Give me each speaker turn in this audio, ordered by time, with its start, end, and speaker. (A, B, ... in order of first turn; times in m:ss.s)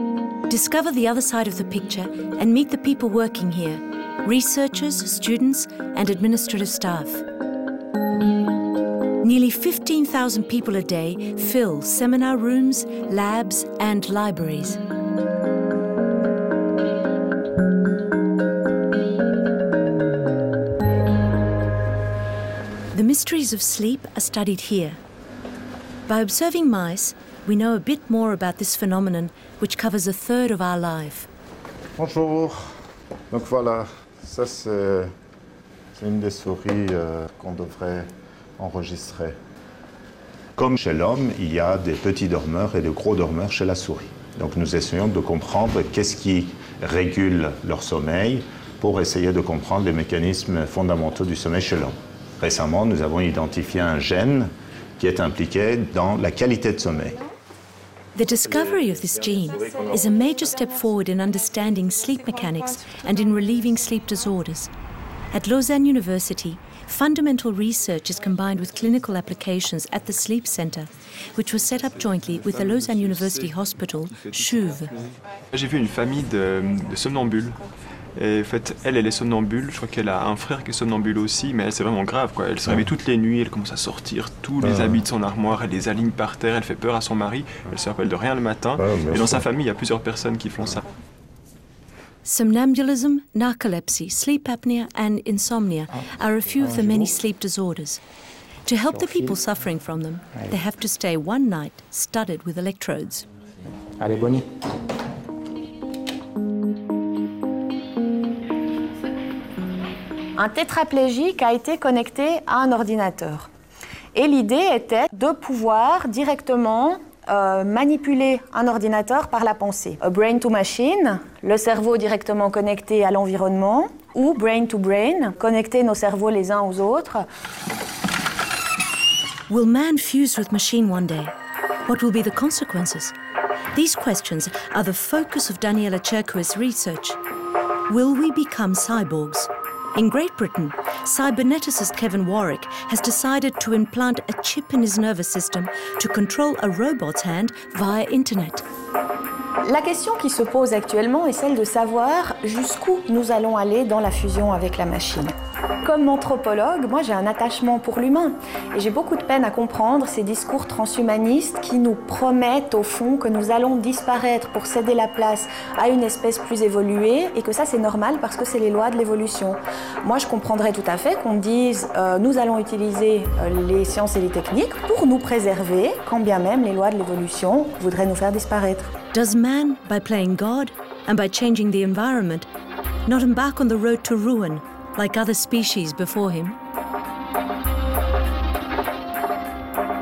0:00.5-0:07.2 A
0:09.2-0:14.8 A
0:22.9-0:25.0 A
0:26.1-0:31.3 A
0:32.0-0:32.6 B
0:33.3-0:35.1 B
0:36.0-0:38.0 B
0:38.6-0:39.3 B
0:40.6-0:57.2 C
0:58.1-1:04.7 A
1:05.3-1:14.9 A
1:12.4-1:13.5 D
1:14.1-1:17.6 D
1:18.2-1:30.8 D
1:28.9-1:29.3 C
1:32.2-1:38.0 A
1:38.6-1:43.2 A
1:50.4-1:53.5 E
1:54.1-2:07.2 E
2:09.5-2:11.3 A
2:11.8-2:13.1 A
2:13.7-2:17.2 A
2:17.9-2:28.6 A
2:29.6-2:35.3 E
2:35.8-2:58.9 E
2:59.1-3:02.4 A
3:03.0-3:06.6 A